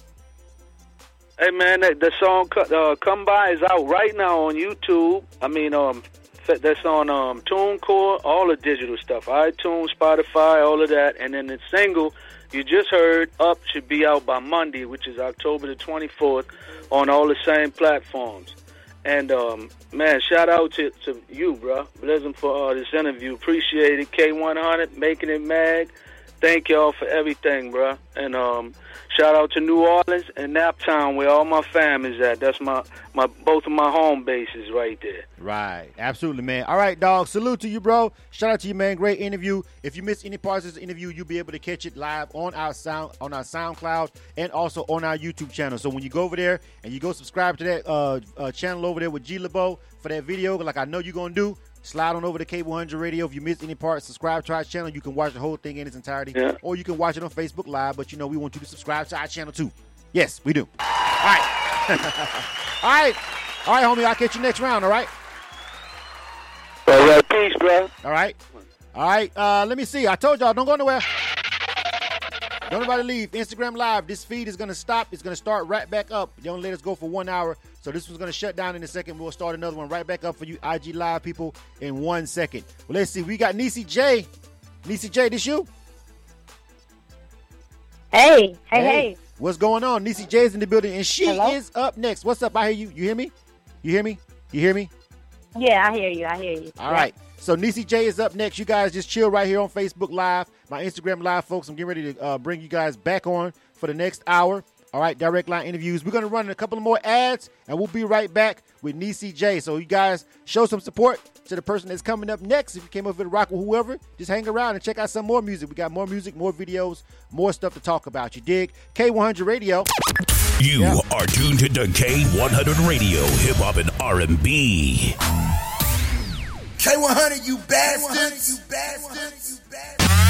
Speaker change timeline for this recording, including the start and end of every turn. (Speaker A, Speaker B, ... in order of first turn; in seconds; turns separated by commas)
Speaker A: 1.4-35.3, Speaker B: 35.4-65.1, Speaker A: 66.9-67.9, Speaker B: 68.0-68.4, Speaker B: 68.9-71.1, Speaker B: 72.7-84.3, Speaker B: 84.8-85.7, Speaker C: 88.1-89.2, Speaker B: 88.7-93.3, Speaker C: 91.2-91.6, Speaker B: 93.8-94.9, Speaker C: 95.5-97.1, Speaker B: 96.8-119.9, Speaker D: 120.6-125.2, Speaker E: 126.8-130.0